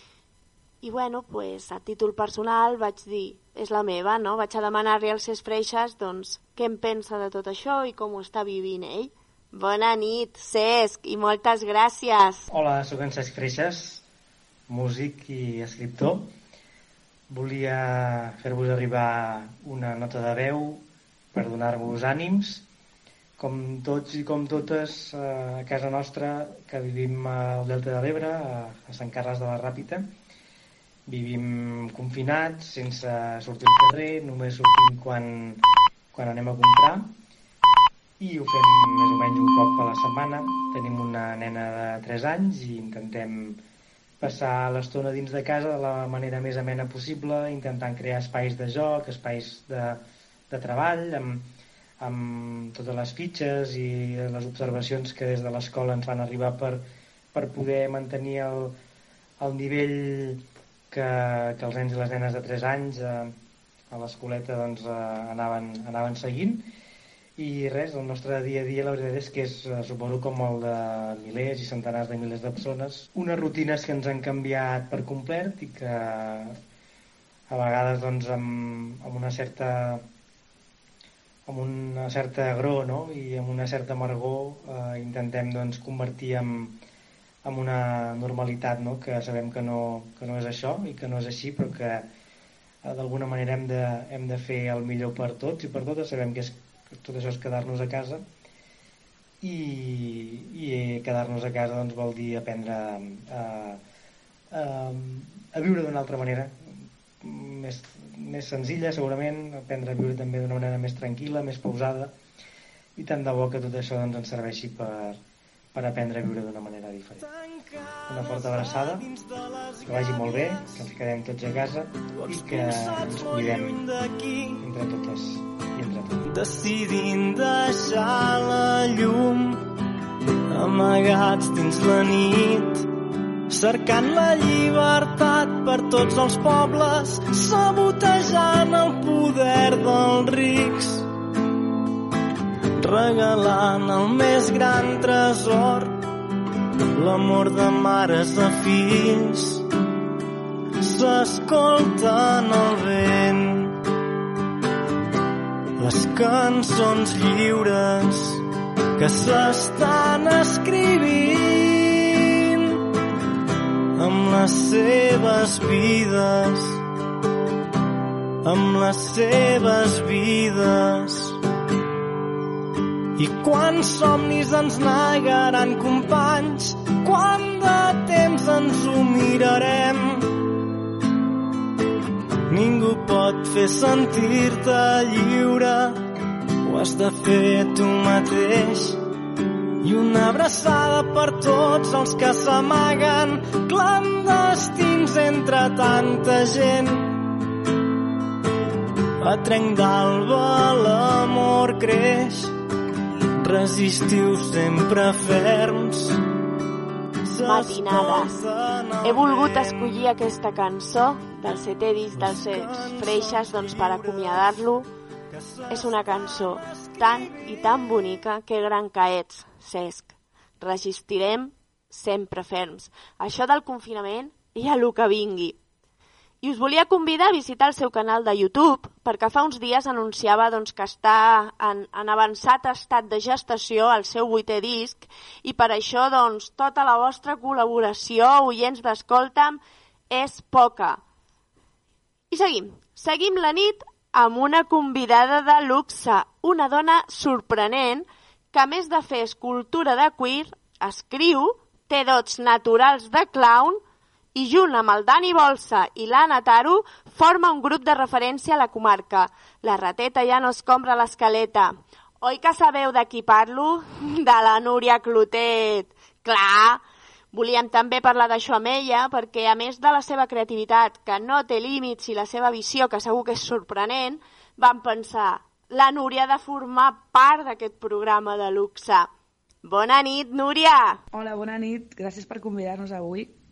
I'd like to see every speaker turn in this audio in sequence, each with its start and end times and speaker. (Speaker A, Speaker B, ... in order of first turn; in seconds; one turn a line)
Speaker A: 0.8-12.5
Speaker B: 12.5-14.0
Speaker B: 14.7-16.3
Speaker B: 17.3-22.6
Speaker B: 23.4-30.1
Speaker B: 31.1-35.6
Speaker B: 36.1-37.1
Speaker B: 38.2-43.6
Speaker B: 44.2-51.5
Speaker B: 52.0-56.8
Speaker B: 57.3-58.8
Speaker B: 59.4-63.3
Speaker B: 63.9-66.7
Speaker B: 67.4-76.6
Speaker B: 77.5-80.0
Speaker B: 81.5-86.8
Speaker B: 87.4-92.1
Speaker B: 92.8-98.2
Speaker B: 99.4-103.8
Speaker B: 104.5-112.1
Speaker B: 113.0-115.2
Speaker B: 115.7-117.2
Speaker C: 117.2-120.9
Speaker B: 118.1-119.1
Speaker B: 119.8-123.8
Speaker C: 122.1-124.6
Speaker B: 124.6-126.5
Speaker C: 126.2-129.6
Speaker C: 130.5-132.9
Speaker C: 133.5-141.1
Speaker C: 142.8-146.0
Speaker C: 146.9-149.6
Speaker C: 150.8-153.8
Speaker C: 155.8-158.4
Speaker C: 159.0-162.6
Speaker C: 163.9-166.8
Speaker C: 168.4-171.4
Speaker C: 173.2-180.4
Speaker C: 182.5-186.0
Speaker C: 186.6-189.0
Speaker C: 189.8-197.2
Speaker C: 199.2-202.5
Speaker C: 203.4-206.2
Speaker C: 207.2-210.0
Speaker A: 207.4-208.4
Speaker A: 209.0-214.9
Speaker C: 212.1-214.7
Speaker C: 215.3-218.0
Speaker A: 215.7-225.6
Speaker A: 226.4-241.0
Speaker A: 242.3-253.8
Speaker A: 254.3-279.1
Speaker A: 279.6-281.0
Speaker D: 281.1-283.4